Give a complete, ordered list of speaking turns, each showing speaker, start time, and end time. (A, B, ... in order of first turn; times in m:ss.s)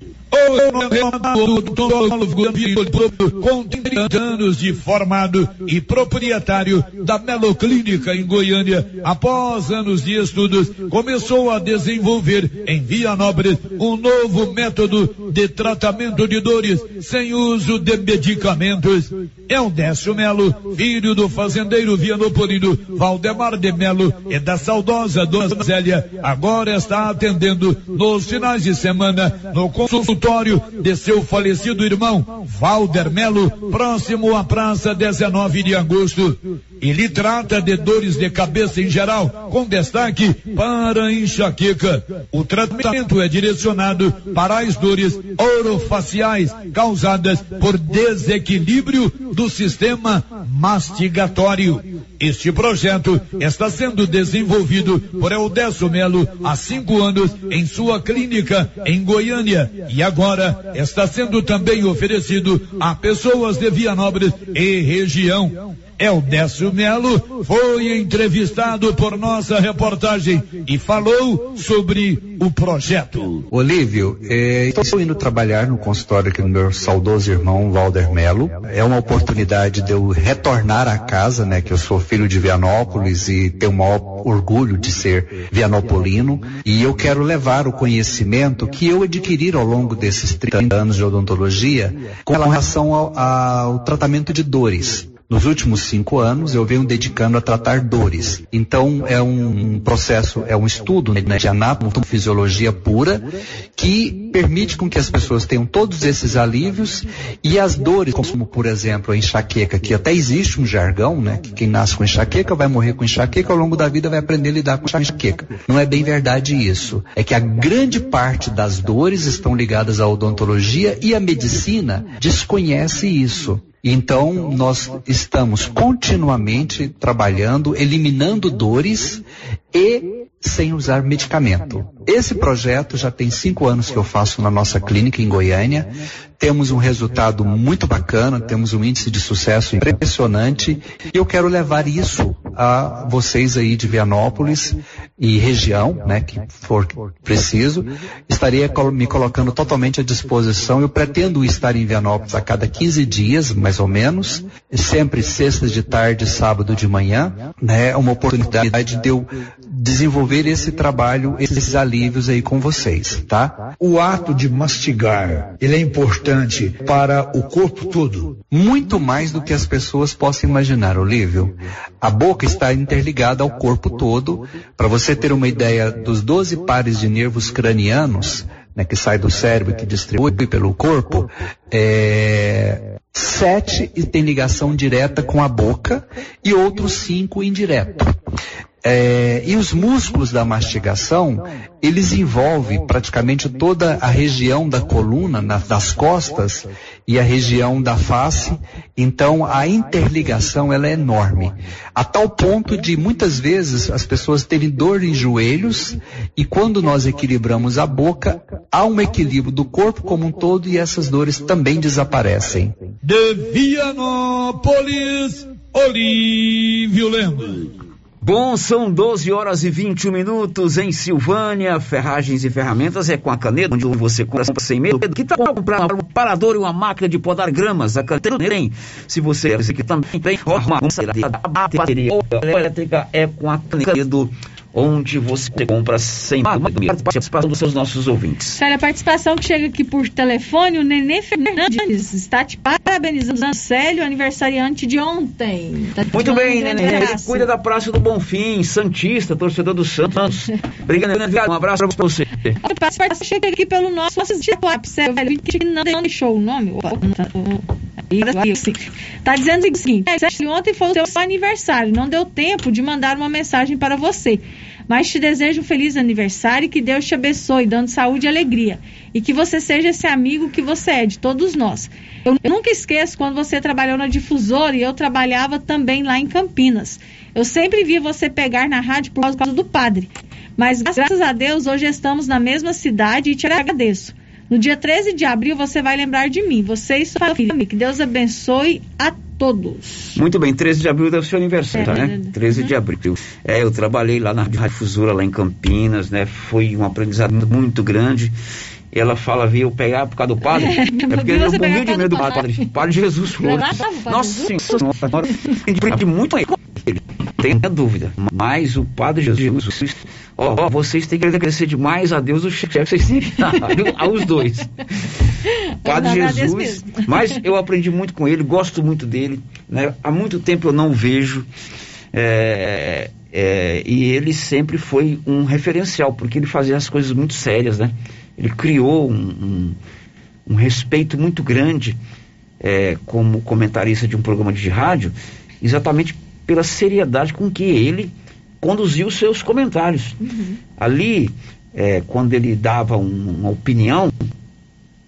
0:00.3-1:13.4 A
1:13.5-2:43.7 B
2:43.8-2:48.4 C
2:48.5-3:08.2 B
3:08.8-3:32.8 B
3:33.0-3:37.7 A
3:38.2-3:58.6 D
3:58.6-4:07.5 E
4:06.1-4:12.5 D
4:12.6-4:50.2 E
4:50.2-4:58.3 D
4:51.7-4:52.7 E
4:58.9-5:14.7 D
5:00.5-5:02.7 E
5:03.4-5:04.9 E
5:15.8-5:17.2 E
5:15.8-5:21.5 D
5:22.1-5:29.8 D
5:30.5-5:32.0 D
5:32.6-5:40.2 D
5:40.2-5:40.6 E
5:40.8-5:44.2 D